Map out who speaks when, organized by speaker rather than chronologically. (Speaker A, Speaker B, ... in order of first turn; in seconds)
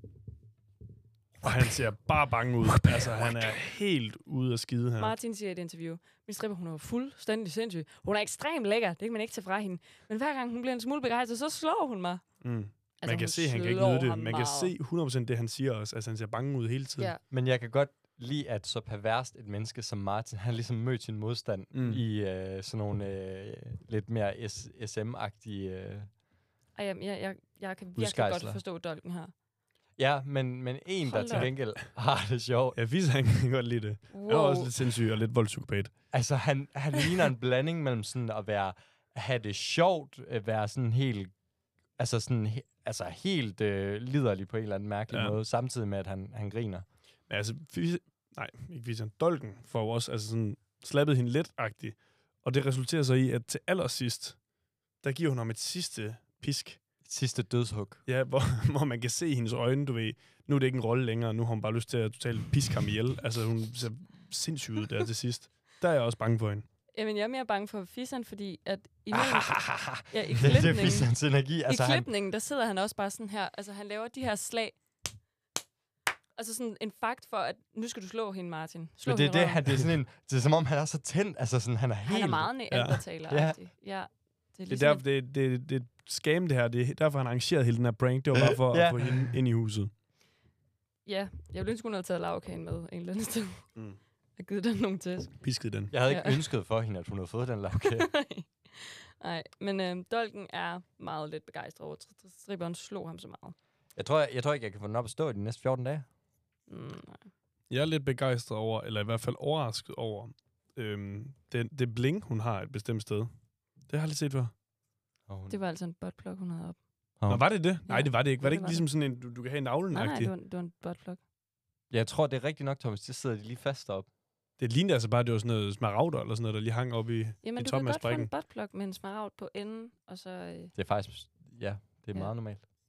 Speaker A: 1.4-5.1, 12.4-17.1, 21.7-22.0, 32.7-35.9, 45.1-45.4, 47.3-54.4, 55.0-56.8, 58.1-66.7, 82.7-83.0, 84.7-89.9, 95.4-95.9, 107.7-113.3, 113.9-114.5, 117.3-120.3, 124.6-128.3
Speaker B: 5.0-12.2, 13.0-14.7, 26.7-29.3, 31.0-31.5, 34.1-34.7, 66.9-71.1, 71.7-74.8, 76.3-79.6, 82.0-85.0, 91.0-93.7, 94.4-95.4, 96.1-96.4, 97.8-103.5, 106.7-107.3, 115.5-116.8, 117.9-118.8, 119.9-121.2, 127.4-130.7
Speaker C: 17.3-26.1, 27.9-28.6, 30.0-32.8, 36.1-41.3, 42.0-46.8, 57.0-58.0, 69.1-72.1, 79.0-82.5, 83.3-83.6, 88.3-89.3, 95.9-98.1, 104.0-106.0, 115.3-115.6, 117.2-117.5, 121.9-124.1, 130.7-132.7